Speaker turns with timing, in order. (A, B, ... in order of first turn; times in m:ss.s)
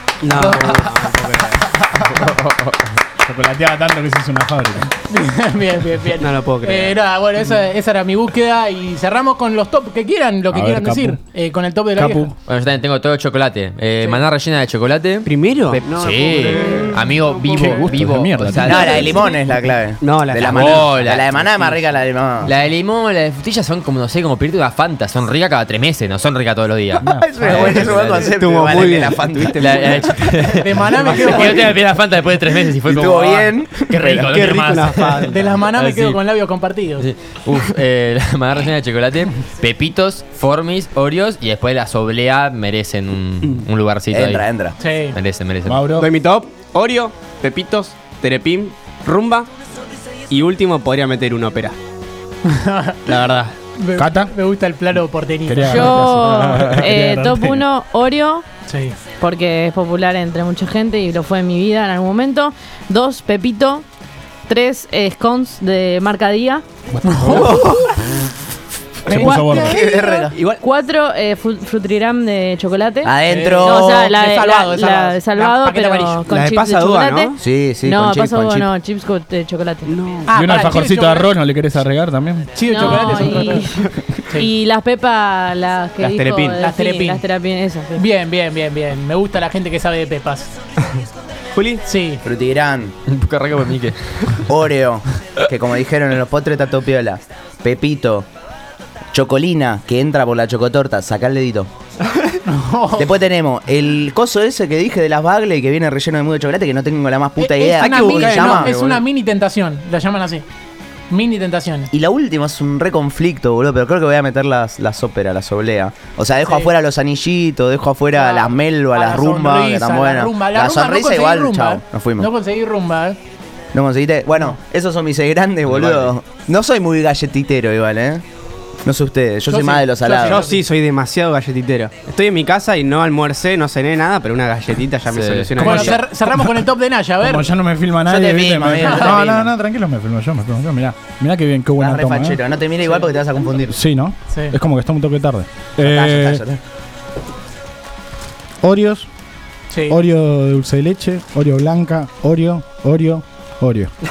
0:00.2-0:01.6 A
0:00.3-0:00.9 B
0:02.2-0:02.7 C
0:03.2-0:04.9 D
0:05.1-0:12.3 B
0:06.2-0:07.0 A
0:10.5-0:11.2 D
0:12.0-0:12.3 D
0:12.5-0:19.1 C
0:15.2-0:18.0 A
0:17.5-0:19.1 D
0:18.6-0:22.5 E
0:18.8-0:19.2 A
0:20.0-0:21.8 A
0:20.4-0:21.3 C
0:22.4-0:28.3 C
0:27.0-0:27.8 D
0:27.0-0:30.1 E
0:28.2-0:31.7 A
0:29.6-0:35.3 C
0:30.6-0:31.7 B
0:32.8-0:34.4 E
0:34.2-0:36.2 A
0:35.3-0:37.1 B
0:37.0-0:44.5 C
0:44.1-0:44.8 E
0:44.8-0:45.2 B
0:45.1-0:45.8 C
0:45.6-0:46.1 D
0:45.9-0:49.5 A
0:50.3-0:51.8 A
0:52.4-0:53.0 B
0:53.1-0:53.5 C
0:53.1-0:53.4 A
0:53.8-0:55.9 B
0:54.0-0:54.3 D
0:55.4-0:57.6 D
0:55.6-0:58.4 F
0:58.7-0:59.0 B
0:59.2-1:03.8 F
1:04.5-1:06.6 F
1:07.0-1:07.6 D
1:07.0-1:08.2 B
1:07.2-1:07.9 A
1:09.1-1:09.8 B
1:09.1-1:09.8 D
1:09.2-1:10.4 E
1:09.5-1:19.9 F
1:10.3-1:10.6 A
1:13.0-1:14.1 E
1:13.2-1:16.2 B
1:16.2-1:17.4 A
1:17.4-1:18.7 E
1:19.9-1:20.3 A
1:20.3-1:21.4 B
1:20.3-1:22.6 D
1:22.6-1:23.6 B
1:22.6-1:28.0 F
1:26.0-1:26.6 A
1:26.6-1:27.2 B
1:27.9-1:30.5 B
1:31.5-1:31.8 A
1:31.8-1:32.2 B
1:32.2-1:32.9 E
1:33.1-1:34.5 C
1:34.5-1:38.3 E
1:39.1-1:41.7 E
1:42.4-1:43.1 B
1:42.9-1:48.7 E
1:47.4-1:50.4 B
1:47.8-1:49.0 A
1:51.1-1:51.9 B
1:51.9-2:02.3 E
1:56.4-1:56.7 B
1:58.1-2:03.2 B
2:03.7-2:08.2 E
2:05.7-2:06.1 C
2:08.8-2:10.4 E
2:09.5-2:10.6 B
2:10.2-2:16.0 A
2:15.1-2:15.7 C
2:15.6-2:17.5 B
2:15.6-2:16.5 D
2:17.2-2:22.4 D
2:18.0-2:19.5 E
2:18.8-2:19.2 B
2:21.8-2:23.8 E
2:23.7-2:26.4 D
2:24.3-2:24.6 B
2:25.8-2:26.6 E
2:28.6-2:29.1 D
2:29.7-2:30.0 B
2:29.9-2:33.9 D